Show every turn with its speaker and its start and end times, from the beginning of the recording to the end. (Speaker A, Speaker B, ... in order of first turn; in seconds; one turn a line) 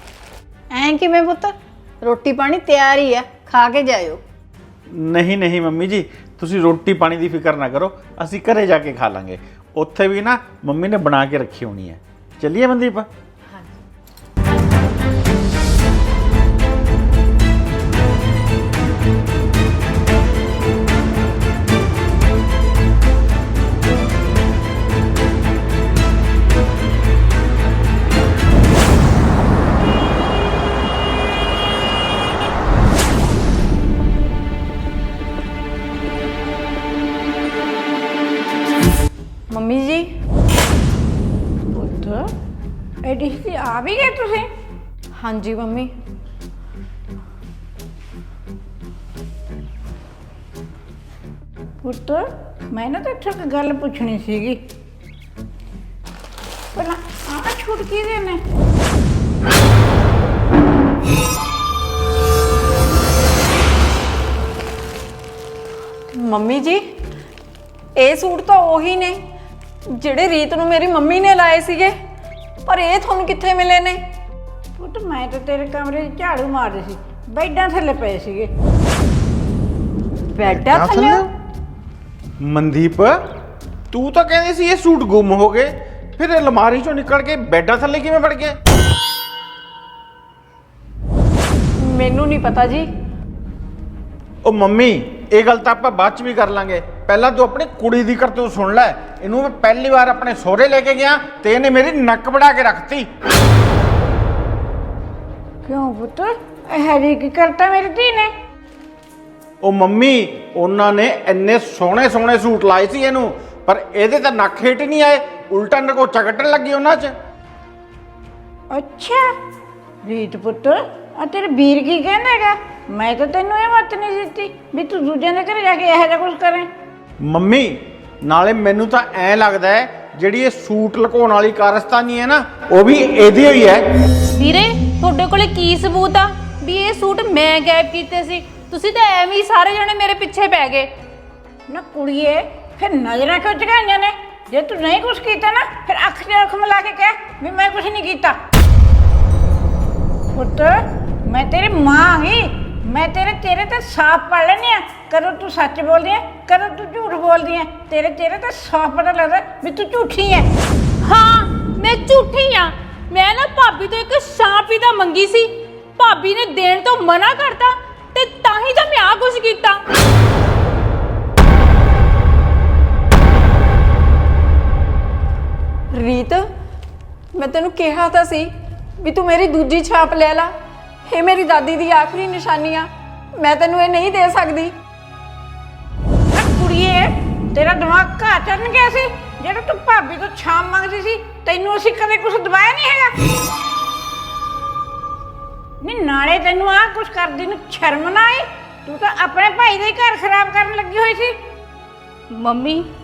Speaker A: 0.7-4.2
Speaker B: 4.9-13.1
Speaker C: 39.5-40.1
Speaker D: 41.8-42.1
Speaker D: 43.1-44.4
Speaker C: 45.1-45.9
Speaker D: 51.8-52.1
Speaker D: 52.8-54.5
Speaker D: 56.9-58.3
Speaker C: 66.1-66.8
Speaker C: 68.0-69.2
Speaker C: 70.0-71.9
Speaker C: 72.7-74.0
Speaker D: 74.8-78.4
Speaker C: 80.3-81.2
Speaker B: 80.5-81.3
Speaker B: 82.4-83.2
Speaker B: 83.9-88.6
Speaker C: 91.8-92.9
Speaker B: 94.4-103.1
Speaker D: 105.7-106.2
Speaker D: 106.8-108.3
Speaker B: 109.6-117.1
Speaker D: 118.8-119.2
Speaker D: 120.1-126.6
Speaker B: 127.2-133.8
Speaker E: 134.3-140.9
Speaker D: 141.8-148.3
Speaker D: 150.3-150.7
Speaker D: 151.4-152.4
Speaker D: 153.0-160.4
Speaker E: 161.0-169.8
Speaker C: 175.9-176.4
Speaker C: 177.3-178.5
Speaker C: 179.0-180.5
Speaker C: 181.1-182.9
Speaker C: 183.4-184.7
Speaker D: 186.3-193.1
Speaker D: 195.9-201.3
Speaker E: 202.3-202.8